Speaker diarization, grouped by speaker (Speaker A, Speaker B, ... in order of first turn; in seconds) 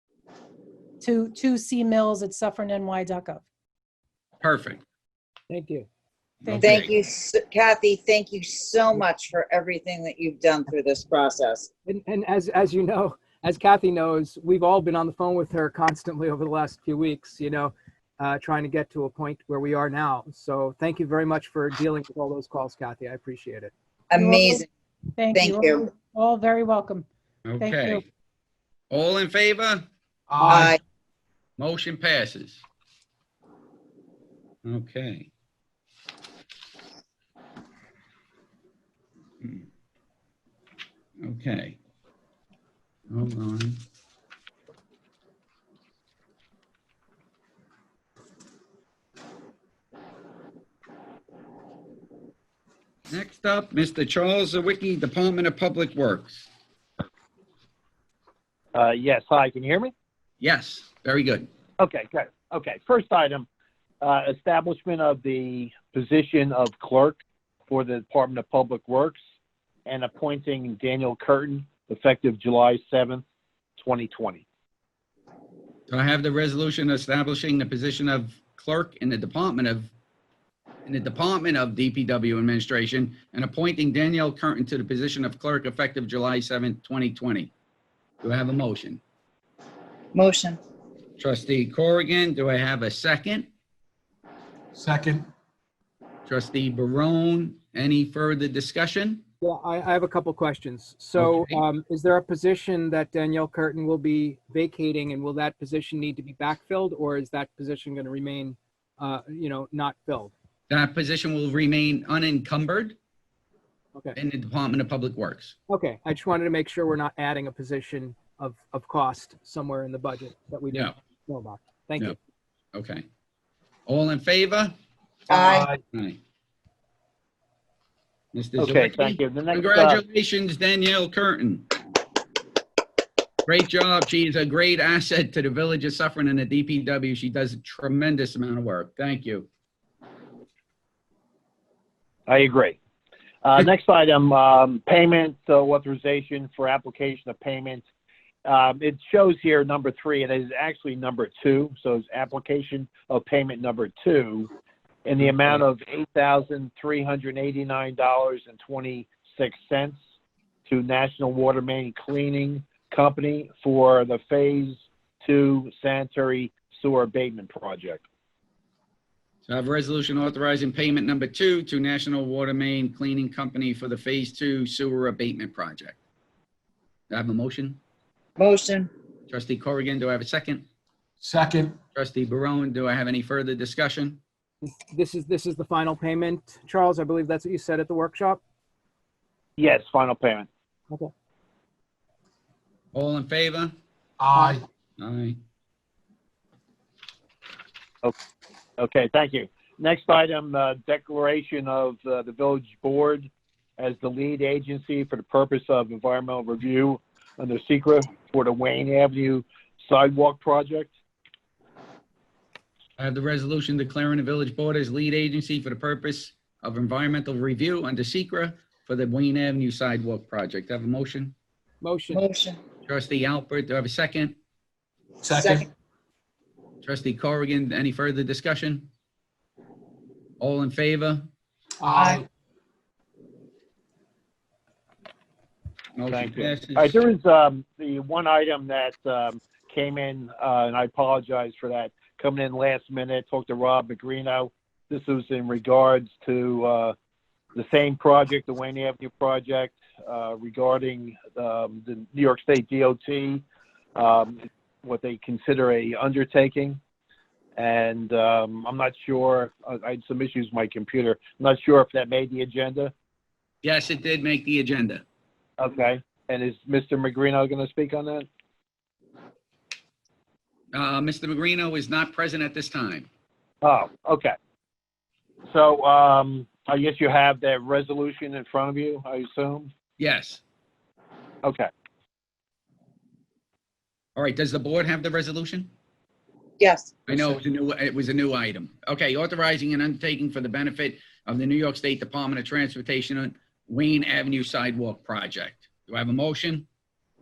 Speaker A: 1.0-3.4, 6.5-6.8, 24.1-24.6, 25.2-27.1, 27.6-28.0
Speaker B: 4.4-4.8, 6.4-6.9, 27.5-28.0, 28.9-29.8, 31.6-32.6, 34.6-35.3, 39.4-39.7, 41.2-41.8, 43.1-43.8, 53.1-56.5, 60.4-61.5, 75.9-79.9, 80.8-87.5, 88.2-89.0, 91.2-93.5, 96.2-99.2, 101.2-101.6, 110.7-113.0, 114.1-115.6, 122.7-123.0, 123.9-124.7, 125.9-126.2, 128.3-131.7, 133.4-139.5, 155.2-155.6, 169.5-176.0, 177.1-177.8, 179.3-180.7, 181.9-184.2, 192.9-193.7, 195.0-195.4, 213.0-221.3, 222.8-224.4, 226.8-228.9, 230.4-231.3, 235.9-237.0, 263.6-265.0, 270.7-273.1, 280.0-280.4, 284.2-285.7, 287.1-296.7
Speaker C: 5.5-5.9, 11.9-23.7, 30.4-30.7, 99.4-110.3, 115.7-122.2, 184.6-188.4, 221.8-222.2
Speaker D: 6.6-11.7, 24.1-24.6, 25.3-25.9, 30.4-30.8, 90.1-90.6, 125.3-125.7, 178.4-178.9, 222.1-222.6, 225.3-225.7, 231.8-232.2, 286.6-286.9
Speaker E: 30.3-30.8, 94.7-95.3, 125.3-125.7, 181.2-181.8, 194.2-194.6, 225.2-225.7, 231.8-232.3
Speaker F: 58.8-59.9, 61.8-63.5, 64.0-69.2, 69.8-73.2, 73.8-74.4, 128.6-130.0, 142.3-142.8, 143.4-147.8, 148.4-154.5, 155.0-160.0, 160.7-168.0, 189.6-190.5, 198.8-210.9, 236.1-246.9, 247.5-253.4, 253.9-256.8, 257.6-262.9, 265.6-268.3, 273.6-274.3, 275.5-279.7, 281.4-281.7